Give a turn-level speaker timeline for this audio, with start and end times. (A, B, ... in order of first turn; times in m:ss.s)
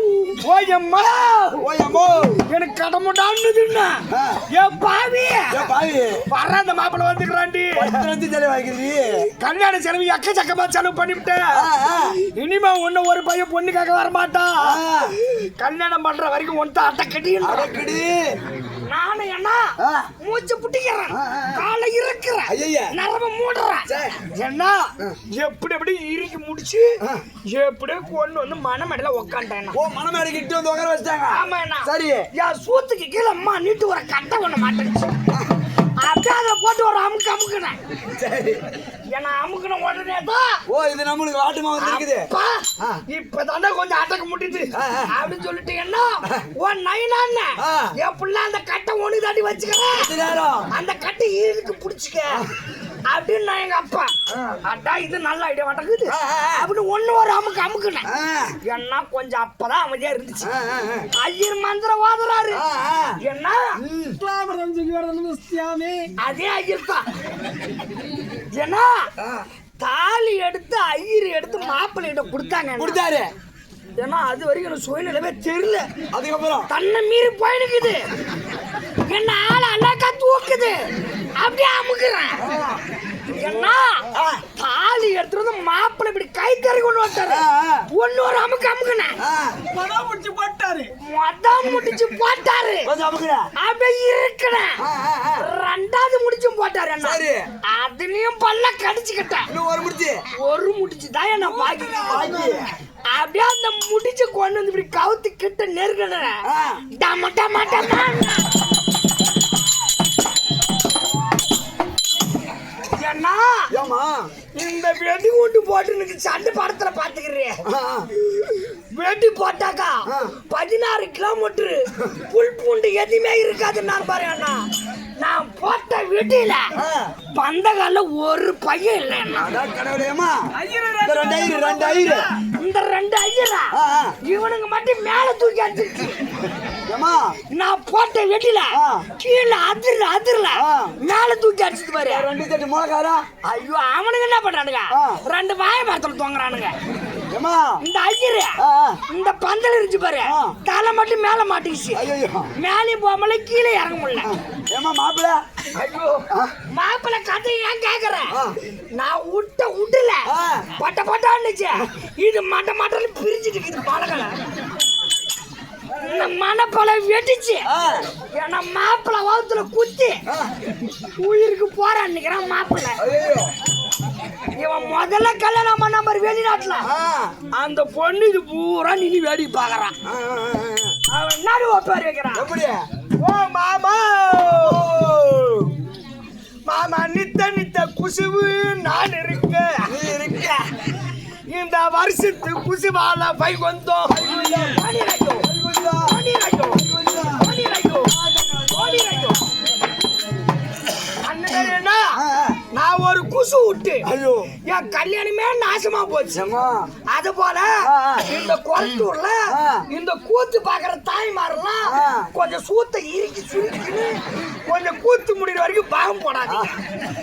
0:00.3-0:01.6 A
0:01.6-0:02.4 B
0:02.4-0:05.7 A
0:04.1-0:04.4 B
0:05.5-0:06.2 B
0:06.3-0:08.0 A
0:07.8-0:09.3 B
0:09.4-0:17.7 A
0:11.6-0:12.2 B
0:14.6-0:15.2 B
0:17.4-0:18.4 B
0:18.8-0:29.8 A
0:19.8-0:20.1 B
0:21.1-0:21.7 B
0:22.5-0:22.9 B
0:23.8-0:24.2 B
0:29.7-0:32.3 B
0:31.3-0:35.1 A
0:36.0-0:37.8 A
0:38.1-0:38.6 B
0:39.1-0:40.6 A
0:40.7-0:43.0 B
0:41.8-0:50.1 A
0:44.7-0:45.1 B
0:47.6-0:47.9 B
0:49.9-0:50.7 B
0:50.7-0:52.4 A
0:53.1-0:58.0 A
0:56.1-0:56.7 B
0:58.1-0:58.6 B
0:58.6-1:00.5 A
1:00.4-1:01.1 B
1:01.2-1:02.6 A
1:02.5-1:03.2 B
1:03.2-1:03.8 A
1:03.8-1:04.2 B
1:04.2-1:06.1 C
1:06.2-1:07.0 A
1:08.6-1:09.1 A
1:09.8-1:13.0 A
1:12.8-1:13.3 B
1:14.0-1:15.9 A
1:16.1-1:16.7 B
1:16.7-1:18.1 A
1:19.1-1:20.8 A
1:21.4-1:22.5 A
1:22.4-1:22.8 B
1:23.3-1:29.2 A
1:24.1-1:24.4 B
1:27.2-1:27.8 B
1:29.2-1:29.6 B
1:29.7-1:30.9 C
1:31.0-1:32.9 A
1:32.8-1:33.5 B
1:33.6-1:34.8 A
1:34.8-1:35.4 B
1:35.4-1:39.5 A
1:37.0-1:37.4 B
1:39.5-1:40.2 B
1:40.4-1:42.4 A
1:41.5-1:41.8 C
1:42.0-1:42.7 B
1:43.1-1:46.4 A
1:46.5-1:46.8 B
1:46.9-1:48.5 A
1:53.0-1:53.7 A
1:53.7-1:54.3 B
1:54.6-1:57.6 A
1:57.6-1:58.1 B
1:58.4-2:04.7 A
2:00.0-2:00.3 B
2:05.2-2:06.7 A
2:06.8-2:07.1 B
2:07.3-2:09.6 A
2:09.3-2:10.4 B
2:10.5-2:12.3 C
2:11.0-2:12.3 B
2:11.8-2:16.3 A
2:13.7-2:14.1 B
2:16.9-2:17.4 B
2:17.5-2:22.3 A
2:18.7-2:19.1 B
2:20.5-2:20.9 B
2:22.0-2:23.2 B
2:23.4-2:26.7 A
2:24.9-2:25.2 B
2:27.3-2:27.8 B
2:27.8-2:34.3 A
2:28.6-2:29.0 B
2:30.2-2:30.6 B
2:31.9-2:32.5 B
2:34.2-2:35.4 B
2:35.7-2:38.4 A
2:36.3-2:36.6 B
2:39.0-2:44.4 A
2:40.3-2:40.7 B
2:46.0-2:47.7 A
2:46.0-2:46.2 B
2:47.6-2:48.0 B
2:48.3-2:50.2 A
2:50.3-2:50.5 B
2:51.1-2:53.0 A
2:53.0-2:53.5 B
2:54.6-2:56.9 A
2:56.8-2:57.4 B
2:57.5-3:00.0 A
3:00.0-3:01.0 B
3:01.1-3:02.5 A
3:02.3-3:02.8 B
3:03.2-3:04.8 A
3:04.4-3:05.7 B
3:06.7-3:10.0 A
3:09.9-3:10.6 B
3:11.5-3:15.5 A
3:14.1-3:14.8 B
3:15.4-3:16.2 B
3:16.0-3:16.8 A
3:16.7-3:19.5 B
3:17.4-3:18.1 A
3:18.7-3:19.4 A
3:21.2-3:22.2 A
3:22.1-3:22.6 B
3:22.7-3:24.1 A
3:24.0-3:24.5 B
3:24.6-3:26.4 A
3:26.3-3:26.9 B
3:27.1-3:36.8 A
3:27.8-3:28.3 B
3:29.5-3:29.8 B
3:31.9-3:32.3 B
3:36.4-3:36.7 B